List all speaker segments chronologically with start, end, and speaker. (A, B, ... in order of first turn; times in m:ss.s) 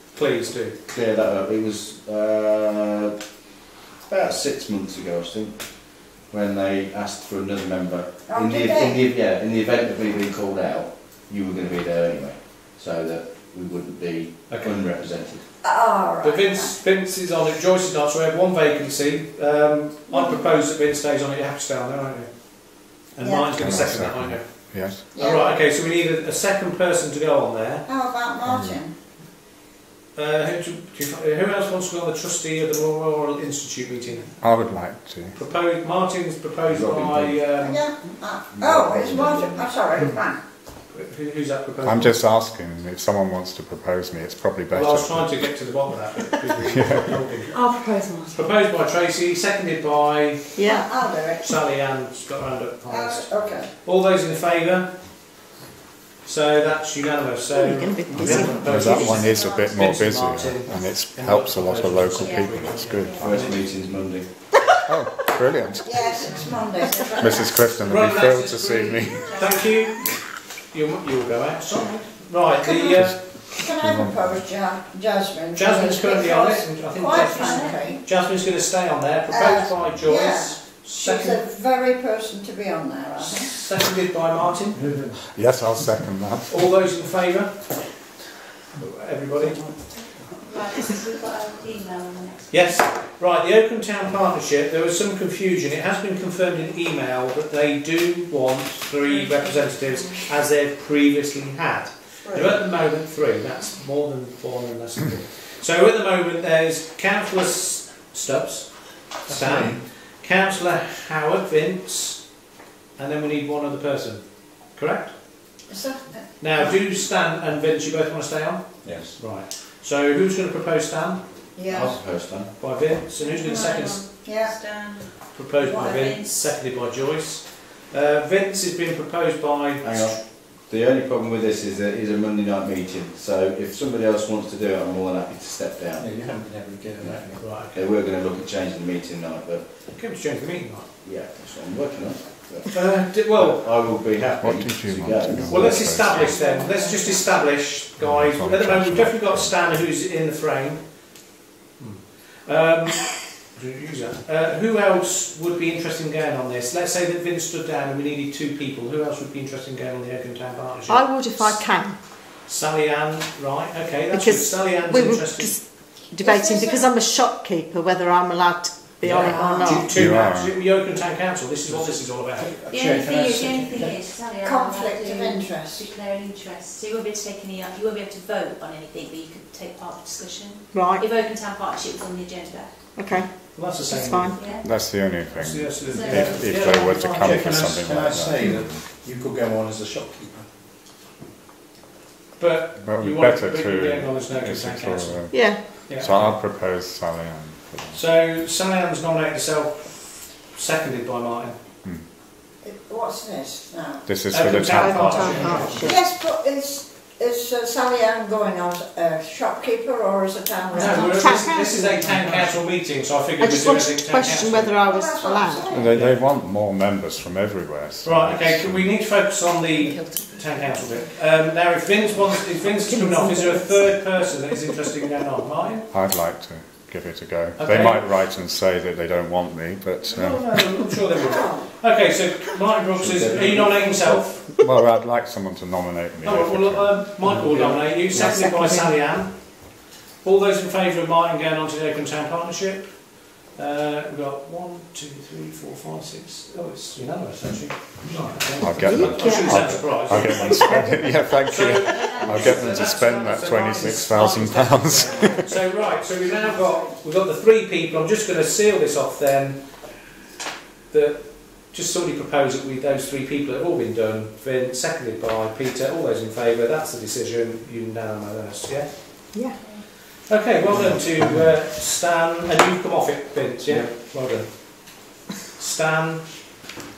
0:00.1-0:00.8 A
0:00.9-0:03.1 B
0:04.0-0:15.4 B
0:08.3-0:09.0 C
0:14.5-0:14.8 A
0:15.6-0:16.8 C
0:16.2-0:24.5 A
0:20.1-0:20.5 C
0:23.2-0:23.5 C
0:23.6-0:25.0 D
0:25.0-0:27.9 A
0:25.1-0:25.5 C
0:27.9-0:28.9 C
0:28.4-0:28.8 D
0:30.2-0:34.3 A
0:34.4-0:35.4 D
0:35.3-0:37.8 A
0:36.7-0:37.4 B
0:37.6-0:40.4 C
0:38.5-0:40.0 B
0:40.9-0:42.2 A
0:41.8-0:45.4 D
0:44.7-0:47.7 A
0:46.7-0:47.2 D
0:47.5-0:48.4 E
0:48.3-0:50.6 A
0:50.6-0:50.9 E
0:50.6-0:51.6 C
0:51.4-0:55.0 A
0:52.9-0:53.7 C
0:56.2-1:03.7 A
0:57.5-0:59.0 E
0:58.1-1:03.6 D
0:58.7-0:59.7 F
1:02.2-1:02.5 F
1:03.0-1:03.3 F
1:03.2-1:04.3 B
1:04.9-1:06.0 D
1:05.8-1:07.5 C
1:07.1-1:09.5 D
1:07.8-1:10.1 A
1:10.7-1:13.2 A
1:12.6-1:18.0 C
1:13.0-1:14.4 D
1:15.5-1:21.4 A
1:17.1-1:17.8 F
1:19.3-1:23.5 C
1:23.2-1:24.9 A
1:24.8-1:25.2 G
1:25.2-1:26.7 D
1:26.5-1:27.6 A
1:28.8-1:29.7 A
1:30.4-1:32.8 F
1:32.5-1:48.7 A
1:39.1-1:39.6 F
1:49.3-1:52.3 A
1:49.3-1:49.8 G
1:53.0-1:55.1 A
1:55.7-1:56.4 C
1:56.4-2:01.2 A
1:58.8-1:59.2 B
2:01.6-2:01.9 C
2:01.7-2:02.5 B
2:02.4-2:04.0 A
2:03.2-2:06.3 F
2:03.4-2:04.6 C
2:05.3-2:10.2 A
2:09.8-2:16.4 B
2:16.0-2:17.6 G
2:17.0-2:19.6 B
2:17.4-2:17.8 A
2:19.9-2:20.9 A
2:21.0-2:26.2 B
2:22.7-2:23.7 A
2:24.4-2:26.4 D
2:25.5-2:30.9 A
2:26.1-2:27.3 F
2:28.0-2:29.6 D
2:31.8-2:41.7 A
2:40.9-2:42.0 E
2:42.4-2:45.6 A
2:44.1-2:49.9 E
2:46.2-2:46.9 C
2:49.1-2:52.5 A
2:49.2-2:49.9 C
2:49.9-2:50.6 D
2:51.7-2:54.1 G
2:52.7-3:02.8 F
2:54.4-2:55.9 C
3:00.7-3:01.1 E
3:03.0-3:04.4 E
3:03.5-3:04.5 A
3:04.3-3:04.7 F
3:04.5-3:08.8 D
3:05.3-3:07.9 A
3:05.9-3:06.5 F
3:07.2-3:10.5 G
3:07.9-3:08.5 B
3:12.4-3:15.2 A
3:12.8-3:18.0 D
3:15.3-3:15.6 E
3:15.8-3:16.4 A
3:17.9-3:21.6 A
3:22.6-3:24.2 C
3:24.1-3:25.9 D
3:24.3-3:25.9 A
3:24.7-3:26.0 E
3:25.2-3:31.2 C
3:30.7-3:32.1 E
3:30.7-3:34.8 A
3:32.0-3:32.6 G
3:33.4-3:35.9 E
3:34.9-3:35.9 C
3:35.7-3:39.0 D
3:35.9-3:36.2 A
3:38.0-3:45.9 A
3:39.8-3:40.2 E
3:42.8-3:43.9 E
3:45.9-3:50.6 D
3:47.6-3:48.1 A
3:50.1-3:54.4 A
3:51.2-3:51.7 C
3:53.0-3:54.4 B
3:54.6-3:57.0 D
3:56.2-3:59.6 A
3:57.6-3:58.3 B
3:58.2-3:59.0 E
4:00.2-4:19.6 A
4:08.6-4:15.4 D
4:08.8-4:09.7 E
4:11.8-4:13.1 F
4:20.9-4:29.2 A
4:29.6-4:29.8 F
4:30.3-4:36.5 A
4:33.7-4:33.9 G